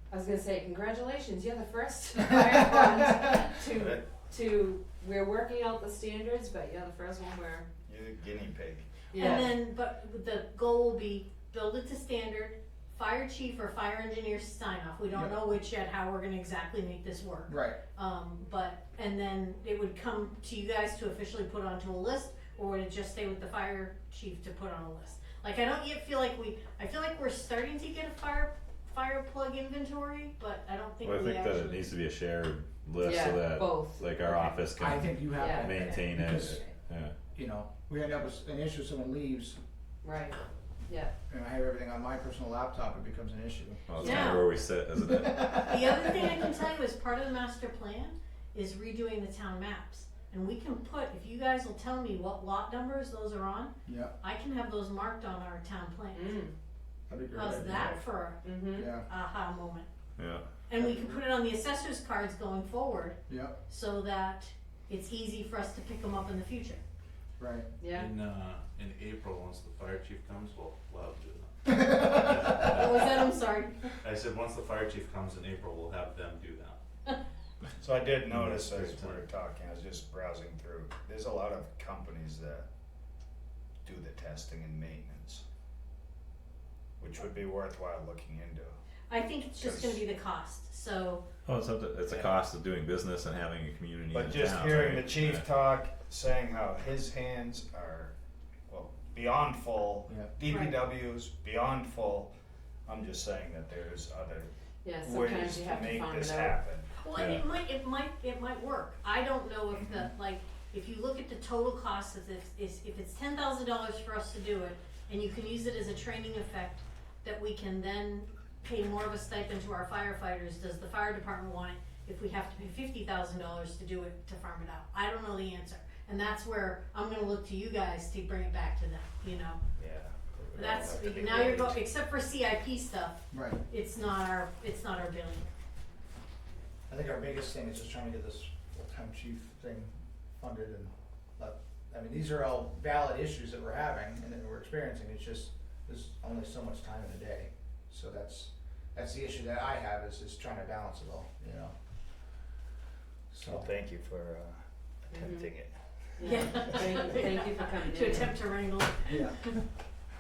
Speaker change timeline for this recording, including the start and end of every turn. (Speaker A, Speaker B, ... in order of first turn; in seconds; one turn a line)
Speaker A: 0.1-7.7
Speaker B: 2.4-3.3
Speaker C: 3.6-4.2
Speaker C: 7.9-9.0
Speaker A: 9.1-9.6
Speaker D: 9.2-31.9
Speaker B: 17.5-17.8
Speaker E: 31.0-37.1
Speaker A: 33.0-34.5
Speaker B: 34.8-36.6
Speaker A: 35.3-35.8
Speaker B: 37.3-39.6
Speaker A: 40.0-41.1
Speaker B: 41.3-44.0
Speaker E: 43.9-45.8
Speaker D: 44.0-44.5
Speaker B: 45.1-46.4
Speaker D: 45.6-56.4
Speaker B: 53.9-54.1
Speaker A: 56.1-56.5
Speaker B: 57.1-58.0
Speaker D: 57.3-59.9
Speaker A: 58.4-58.9
Speaker B: 58.8-59.1
Speaker E: 60.2-60.5
Speaker D: 60.7-66.8
Speaker B: 60.8-61.1
Speaker B: 63.3-63.5
Speaker B: 67.4-67.7
Speaker A: 67.8-68.1
Speaker F: 67.9-73.4
Speaker B: 71.7-72.0
Speaker D: 72.5-74.0
Speaker F: 74.0-76.8
Speaker C: 77.8-82.7
Speaker F: 78.4-79.2
Speaker C: 83.8-85.4
Speaker C: 87.0-88.8
Speaker D: 89.1-91.2
Speaker C: 89.6-90.0
Speaker E: 91.5-95.5
Speaker C: 94.1-98.1
Speaker C: 98.7-102.3
Speaker B: 100.1-100.3
Speaker D: 100.5-100.8
Speaker C: 102.9-106.9
Speaker A: 104.8-106.6
Speaker D: 107.0-129.6
Speaker E: 107.1-107.4
Speaker C: 129.8-131.8
Speaker D: 130.5-135.5
Speaker B: 133.3-133.6
Speaker B: 136.9-151.8
Speaker B: 153.3-153.7
Speaker C: 153.5-156.9
Speaker A: 155.1-155.5
Speaker A: 156.2-158.3
Speaker D: 156.2-159.6
Speaker B: 159.1-159.5